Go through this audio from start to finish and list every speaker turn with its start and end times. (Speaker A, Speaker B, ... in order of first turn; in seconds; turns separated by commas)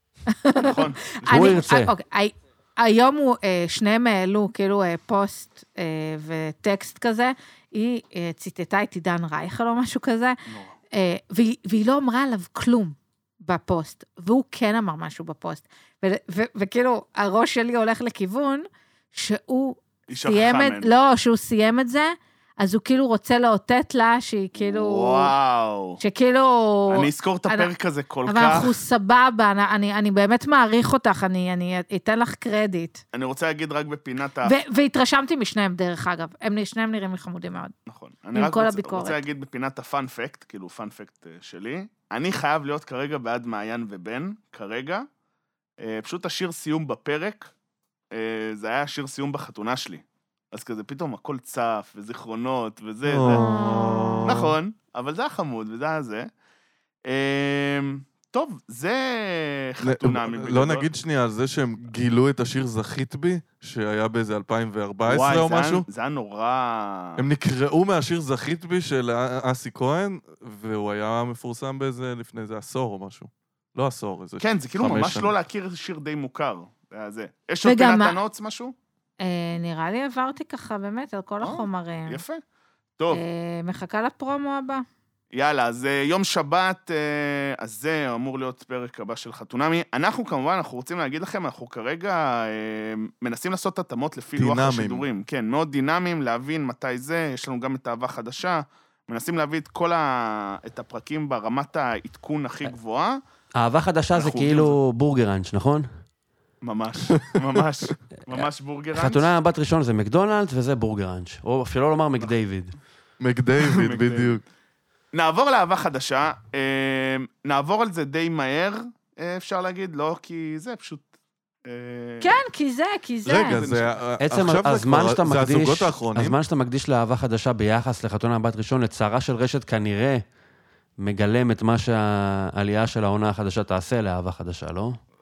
Speaker A: 0.3-10.4, Speaker B: 0.6-1.6, Speaker C: 1.2-1.9, Speaker B: 10.5-10.7, Speaker A: 10.9-25.3, Speaker B: 20.1-20.9, Speaker B: 24.6-26.0, Speaker A: 26.0-27.7, Speaker B: 26.9-28.8, Speaker A: 28.3-33.0, Speaker B: 33.1-34.6, Speaker A: 34.4-37.7, Speaker B: 37.9-45.0, Speaker A: 38.3-39.2, Speaker B: 45.8-47.5, Speaker B: 48.1-53.5, Speaker D: 53.0-54.5, Speaker A: 53.3-54.3, Speaker B: 54.3-56.3, Speaker B: 57.1-60.9, Speaker D: 59.8-65.8, Speaker B: 65.1-67.2, Speaker D: 67.2-75.3, Speaker B: 74.4-78.7, Speaker A: 77.6-78.2, Speaker A: 79.2-82.2, Speaker B: 81.4-82.4, Speaker B: 83.0-83.2, Speaker A: 83.1-84.8, Speaker B: 85.3-103.2, Speaker D: 94.4-95.0, Speaker C: 103.6-105.9, Speaker B: 104.1-104.8, Speaker B: 106.6-109.3, Speaker C: 108.3-112.8, Speaker D: 113.2-114.4, Speaker B: 113.6-114.4, Speaker B: 115.1-121.1, Speaker B: 121.7-122.4, Speaker A: 122.2-123.6, Speaker D: 123.2-126.4, Speaker B: 123.3-124.0, Speaker C: 124.2-130.2, Speaker C: 131.0-135.0